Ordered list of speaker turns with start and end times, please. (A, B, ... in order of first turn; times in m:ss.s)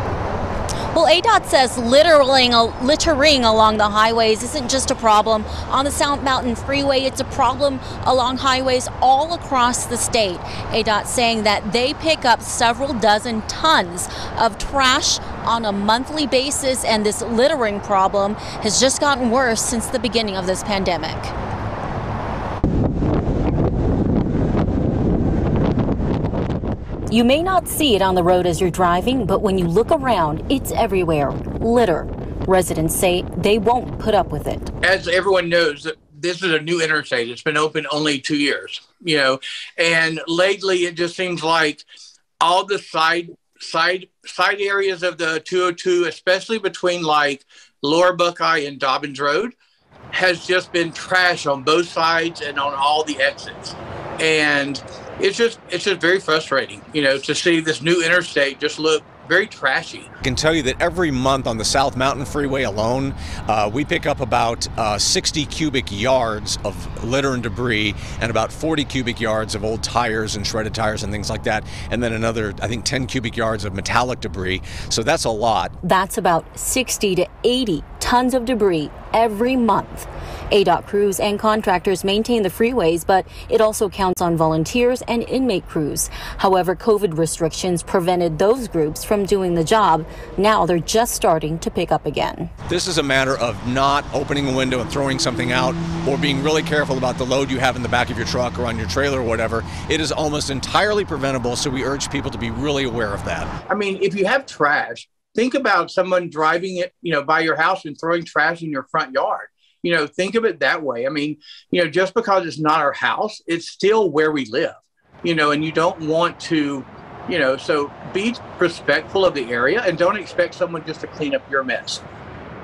0:00.9-0:21.3 A
0:27.1-0:34.7 A
0:34.8-0:41.8 B
0:42.4-0:49.5 B
0:50.1-1:00.1 B
1:00.2-1:15.7 C
1:15.8-1:32.5 A
1:32.7-1:43.5 C
1:43.7-2:02.0 B